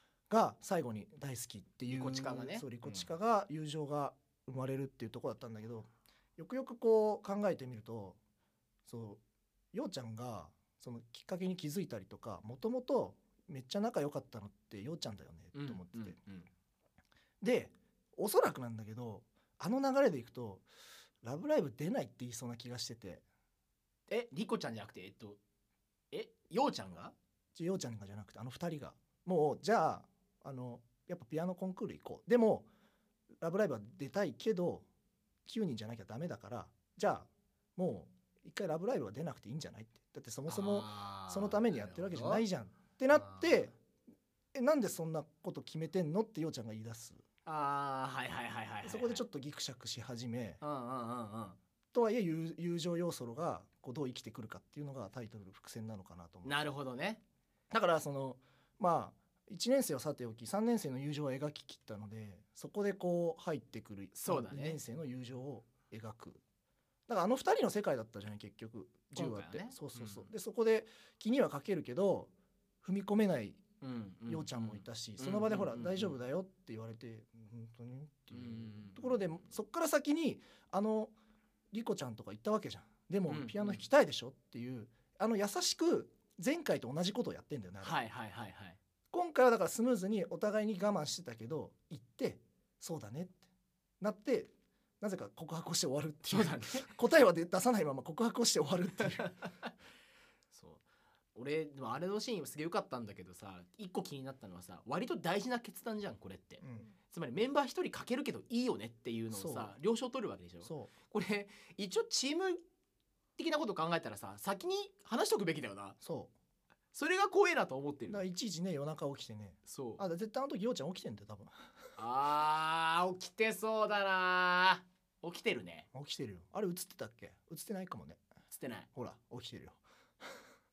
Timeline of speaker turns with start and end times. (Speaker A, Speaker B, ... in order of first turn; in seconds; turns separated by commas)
Speaker A: 0.3-8.2, Speaker B: 1.9-3.1, Speaker A: 8.9-9.2, Speaker A: 9.7-16.2, Speaker B: 15.5-16.5, Speaker A: 17.4-20.6, Speaker A: 21.2-23.2, Speaker B: 24.1-25.4, Speaker B: 26.1-27.1, Speaker A: 27.5-32.7, Speaker A: 33.4-34.9, Speaker A: 35.5-43.7, Speaker B: 40.5-42.4, Speaker B: 43.1-43.7, Speaker A: 44.5-47.2, Speaker B: 47.5-49.2, Speaker A: 48.8-50.6, Speaker B: 50.6-51.6, Speaker A: 51.9-56.5, Speaker B: 56.4-57.2, Speaker A: 57.7-66.4, Speaker B: 64.1-64.8, Speaker A: 67.1-72.3, Speaker B: 69.1-70.3, Speaker A: 72.8-73.6, Speaker B: 73.8-76.2, Speaker A: 74.3-81.1, Speaker B: 78.3-79.5, Speaker A: 81.7-88.0, Speaker B: 83.3-83.8, Speaker B: 87.8-88.8, Speaker A: 89.1-93.4, Speaker A: 94.0-99.3, Speaker B: 96.3-96.9, Speaker B: 99.2-99.7, Speaker B: 100.5-112.6, Speaker A: 106.6-106.9, Speaker A: 109.3-109.7, Speaker A: 110.6-110.9, Speaker B: 113.4-116.0, Speaker A: 116.0-116.3, Speaker B: 116.9-118.2, Speaker A: 118.1-121.6, Speaker B: 119.7-120.0, Speaker B: 122.0-125.9, Speaker A: 125.9-128.2, Speaker B: 128.5-128.9, Speaker A: 128.9-130.4